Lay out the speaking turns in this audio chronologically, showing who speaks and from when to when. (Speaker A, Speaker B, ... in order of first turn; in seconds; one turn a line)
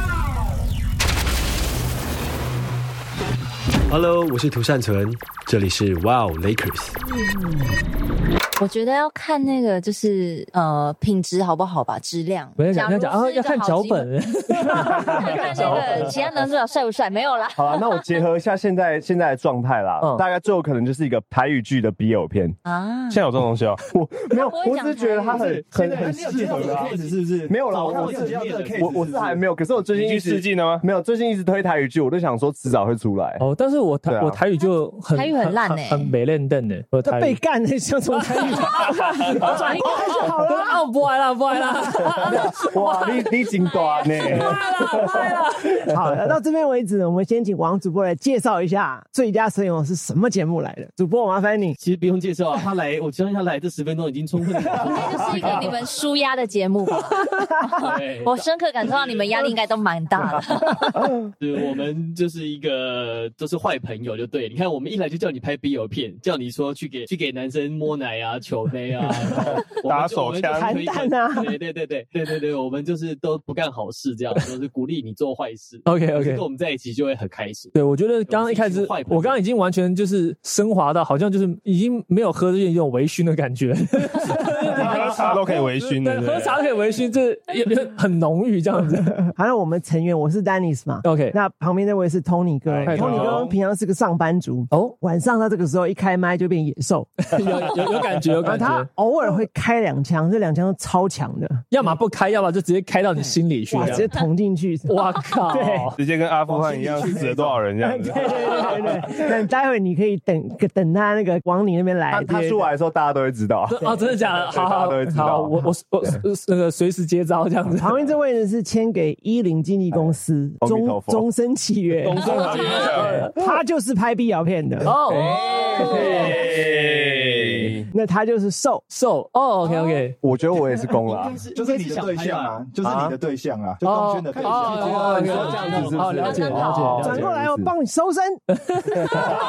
Speaker A: 3.9-7.0
Speaker B: 8.6-18.1
Speaker C: 12.6-16.1
Speaker D: 17.6-22.6
Speaker C: 20.0-20.2
Speaker B: 22.6-23.2
Speaker E: 23.1-23.8
Speaker D: 23.9-26.9
Speaker B: 24.3-25.6
Speaker F: 25.3-29.3
Speaker G: 25.8-29.4
Speaker D: 27.5-33.4
Speaker E: 29.9-30.8
Speaker C: 33.4-37.4
Speaker D: 34.0-34.4
Speaker B: 35.1-36.1
Speaker H: 37.0-40.8
Speaker C: 38.3-43.3
Speaker B: 39.5-40.1
Speaker D: 42.2-45.2
Speaker B: 43.6-44.5
Speaker C: 44.0-45.9
Speaker H: 45.9-51.8
Speaker F: 51.8-55.8
Speaker B: 54.8-61.0
Speaker F: 57.8-59.5
Speaker F: 61.4-77.7
Speaker E: 69.7-70.8
Speaker H: 70.5-71.5
Speaker C: 75.8-76.4
Speaker C: 77.7-89.2
Speaker F: 78.3-79.4
Speaker E: 84.7-86.6
Speaker H: 89.2-97.4
Speaker C: 91.0-91.3
Speaker E: 92.7-93.5
Speaker C: 92.8-93.5
Speaker C: 94.7-95.0
Speaker C: 97.3-98.9
Speaker H: 98.4-101.6
Speaker C: 101.7-104.1
Speaker H: 103.2-105.9
Speaker C: 104.9-106.0
Speaker E: 106.0-108.7
Speaker G: 106.4-107.7
Speaker F: 106.7-107.5
Speaker H: 107.8-112.6
Speaker D: 112.1-115.7
Speaker C: 113.7-118.1
Speaker H: 117.7-122.7
Speaker D: 119.9-121.3
Speaker E: 122.0-123.3
Speaker C: 122.1-123.3
Speaker H: 123.3-124.9
Speaker D: 124.8-127.8
Speaker C: 124.8-126.3
Speaker E: 125.2-127.8
Speaker H: 127.9-128.8
Speaker C: 128.9-130.2
Speaker D: 130.2-131.4
Speaker F: 131.0-132.6
Speaker G: 131.5-135.7
Speaker D: 132.8-133.2
Speaker C: 133.8-137.3
Speaker F: 134.3-136.8
Speaker D: 134.8-137.7
Speaker B: 136.0-137.1
Speaker H: 137.0-138.4
Speaker C: 138.5-139.2